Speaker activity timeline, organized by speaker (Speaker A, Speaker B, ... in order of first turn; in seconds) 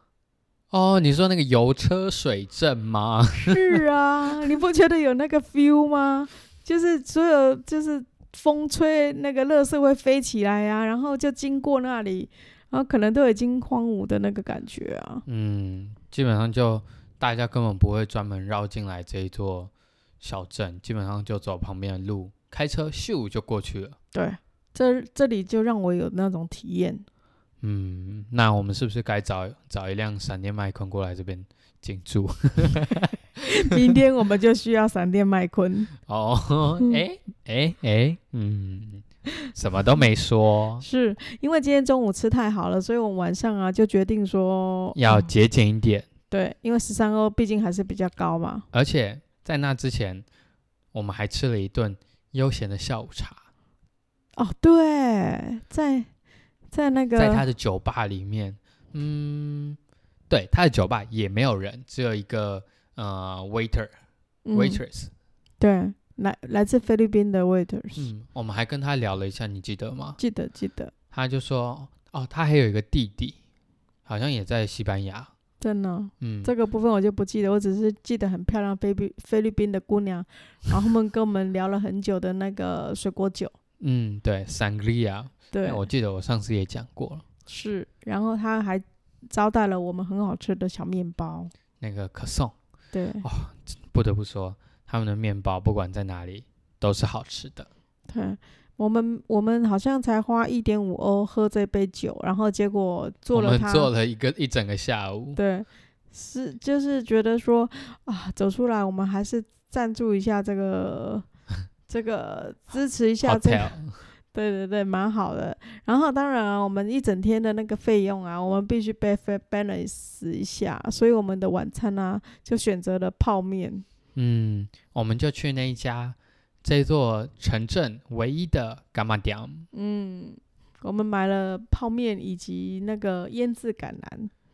Speaker A: 0.7-3.6, 15.2-24.0, 27.6-33.1, 36.0-40.8, 44.9-46.1, 48.7-50.2, 50.9-53.4, 57.1-59.8, 60.3-63.9, 64.5-65.1, 68.0-70.2, 71.1-73.4, 74.0-75.3, 76.2-76.5, 83.8-87.2, 91.8-92.5, 93.2-97.7, 103.3-105.4, 113.2-114.0, 124.1-129.7
Speaker B: 3.4-15.2, 24.1-27.0, 33.4-35.9, 40.8-45.3, 46.3-48.7, 54.4-56.1, 56.7-57.4, 64.5-64.8, 65.6-68.1, 70.2-70.9, 75.6-83.5, 85.5-85.9, 87.5-91.5, 92.9-93.2, 98.1-103.9, 105.3-111.2, 111.9-113.8, 114.3-123.8, 129.7-134.3